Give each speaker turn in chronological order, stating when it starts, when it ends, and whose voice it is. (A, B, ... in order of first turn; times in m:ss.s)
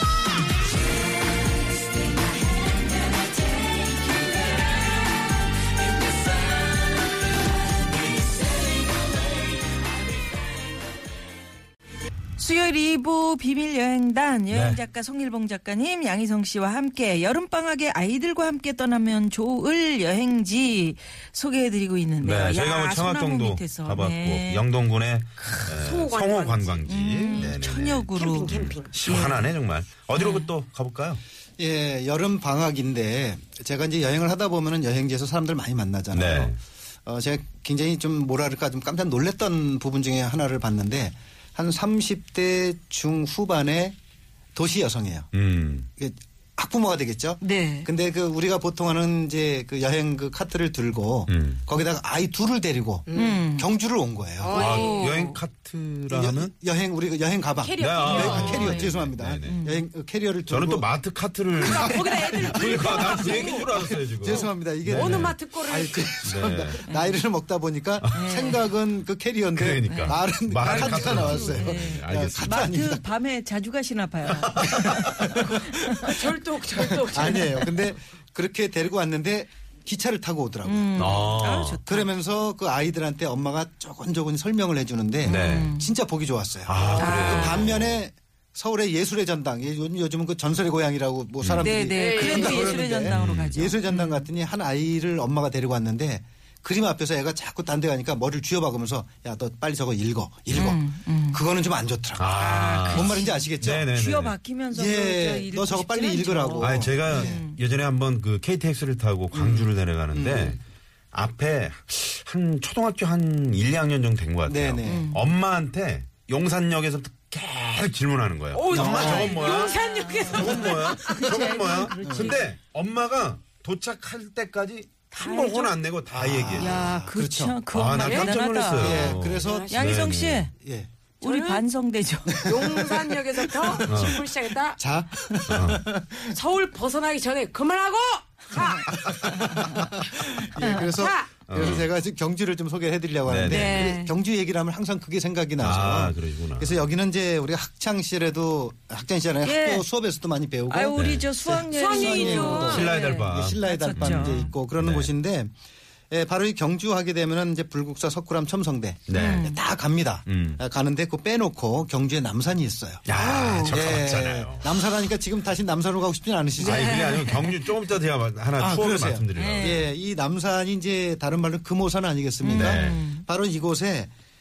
0:12.4-0:24.7 A
0:14.5-0:14.8 B
0:22.2-0:31.2 B
0:25.7-0:26.8 C
0:26.9-0:28.5 A
0:27.3-0:27.6 C
0:28.2-0:29.3 C
0:29.0-0:29.5 A
0:30.1-0:30.5 A
0:31.6-0:44.0 D
0:36.1-0:36.6 B
0:44.6-0:45.3 D
0:45.3-0:45.9 B
0:46.0-0:54.6 D
0:47.4-0:47.9 A
0:51.3-0:51.6 B
0:53.1-0:53.4 C
0:53.1-0:53.7 A
0:54.4-0:55.1 C
0:54.5-0:56.5 B
0:54.5-0:55.4 A
0:56.1-1:00.9 D
0:57.6-0:58.9 C
0:57.8-0:59.6 B
0:58.2-0:58.5 A
0:59.4-0:59.8 A
1:00.5-1:05.4 B
1:01.6-1:06.2 C
1:01.6-1:02.0 D
1:02.6-1:13.1 D
1:06.2-1:06.9 B
1:06.8-1:07.2 A
1:08.0-1:08.5 B
1:08.1-1:08.7 A
1:09.5-1:12.6 B
1:09.8-1:16.2 A
1:14.6-1:15.0 B
1:15.0-1:16.1 D
1:16.1-1:17.5 C
1:17.0-1:21.3 D
1:20.6-1:22.1 A
1:21.0-1:21.8 B
1:21.9-1:43.9 D
1:25.2-1:25.7 B
1:25.2-1:25.9 A
1:26.7-1:28.0 B
1:26.8-1:27.6 C
1:27.1-1:27.5 A
1:31.4-1:31.7 B
1:31.6-1:34.3 A
1:31.9-1:32.8 C
1:33.0-1:33.7 B
1:40.5-1:41.4 A
1:42.2-1:44.4 B
1:42.3-1:47.6 A
1:44.7-1:47.5 D
1:46.6-1:50.6 B
1:49.3-1:50.6 D
1:51.1-2:06.9 B
1:54.5-1:55.2 D
1:54.8-1:55.2 A
1:58.5-2:01.3 C
1:58.7-1:59.4 D
1:58.8-2:02.5 A
2:02.0-2:02.4 D
2:05.1-2:05.8 A
2:06.1-2:07.6 D
2:06.6-2:09.1 A
2:07.7-2:10.5 B
2:08.0-2:08.3 C
2:08.7-2:10.9 D
2:08.9-2:09.9 C
2:09.7-2:10.5 A
2:11.2-2:12.5 A
2:11.2-2:11.6 C
2:12.3-2:14.1 D
2:12.5-2:14.8 C
2:13.8-2:14.2 B
2:14.8-2:16.4 D
2:15.5-2:15.8 B
2:16.3-2:21.4 C
2:18.6-2:18.8 A
2:18.9-2:35.5 D
2:20.6-2:20.9 A
2:21.5-2:21.9 B
2:23.2-2:23.9 B
2:23.5-2:24.1 A
2:25.6-2:26.9 B
2:29.4-2:29.9 A
2:30.7-2:34.5 A
2:31.0-2:31.3 B
2:31.7-2:33.1 C
2:32.6-2:35.1 B
2:36.1-2:43.1 D
2:39.1-2:39.5 B
2:39.1-2:39.6 A
2:40.3-2:40.6 B
2:43.1-2:44.9 B
2:43.2-2:43.5 A
2:43.6-2:47.1 D
2:46.6-2:47.6 A
2:46.6-2:49.8 B
2:48.6-2:54.1 D
2:49.4-2:49.9 A
2:52.4-2:53.3 A
2:52.6-2:53.0 B